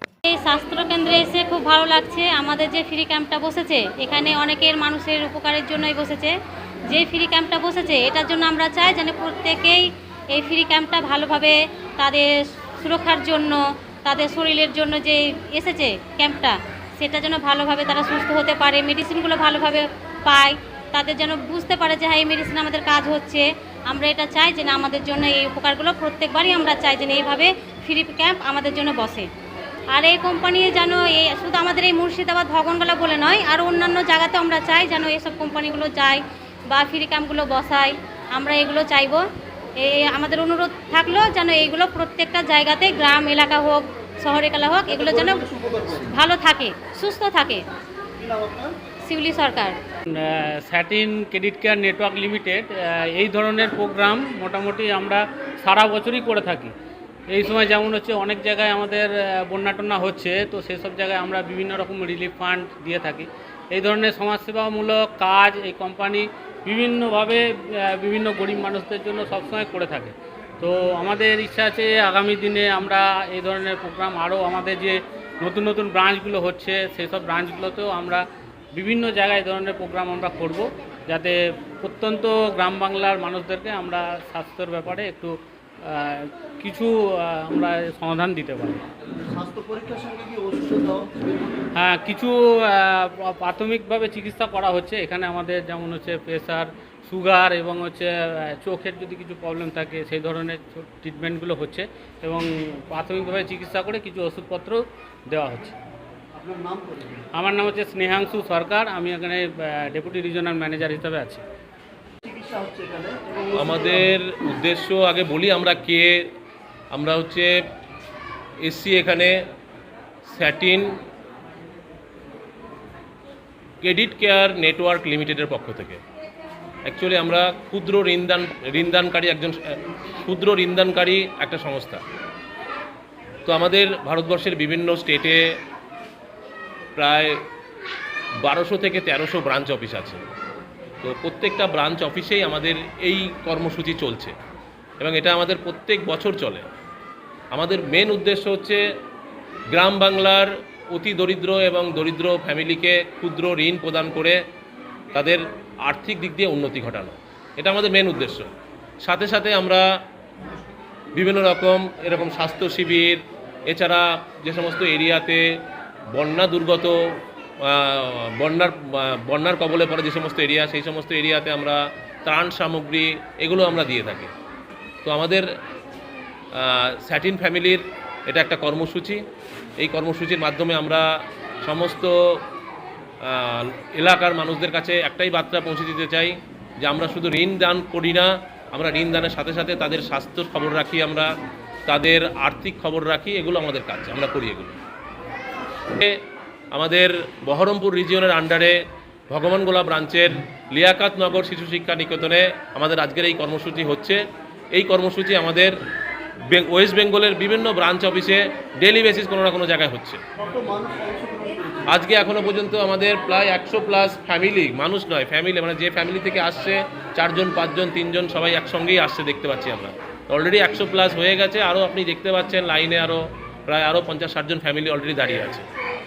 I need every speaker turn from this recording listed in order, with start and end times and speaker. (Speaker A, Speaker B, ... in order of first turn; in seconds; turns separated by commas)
Speaker A: 0.3-6.3, Speaker A: 6.9-12.3, Speaker A: 12.8-29.3, Speaker A: 29.9-39.2, Speaker A: 39.8-45.5, Speaker B: 44.9-46.1, Speaker A: 46.1-47.6, Speaker B: 48.2-48.8, Speaker A: 49.1-49.8, Speaker C: 50.2-56.7, Speaker C: 57.3-88.8, Speaker B: 89.2-91.3, Speaker C: 91.8-105.8, Speaker B: 106.3-107.3, Speaker C: 107.4-111.4, Speaker B: 112.2-114.1, Speaker D: 113.5-116.3, Speaker D: 116.9-117.5, Speaker D: 118.7-119.4, Speaker D: 120.3-121.0, Speaker D: 123.8-126.0, Speaker D: 126.9-132.0, Speaker D: 133.5-135.4, Speaker D: 137.0-137.4, Speaker D: 138.4-140.2, Speaker D: 141.0-144.3, Speaker D: 145.0-146.7, Speaker D: 147.5-148.8, Speaker D: 149.7-154.4, Speaker D: 155.1-158.5, Speaker D: 159.1-159.8, Speaker D: 161.2-165.4, Speaker D: 166.2-167.0, Speaker D: 167.6-174.3, Speaker D: 175.0-175.5, Speaker D: 176.6-179.2, Speaker D: 179.8-181.1, Speaker D: 181.6-182.1, Speaker D: 183.2-191.3, Speaker D: 191.9-194.8, Speaker D: 195.9-196.2, Speaker D: 196.7-198.8, Speaker D: 199.3-204.2, Speaker D: 204.8-205.8, Speaker D: 206.5-210.2, Speaker B: 210.4-211.9, Speaker D: 211.9-225.7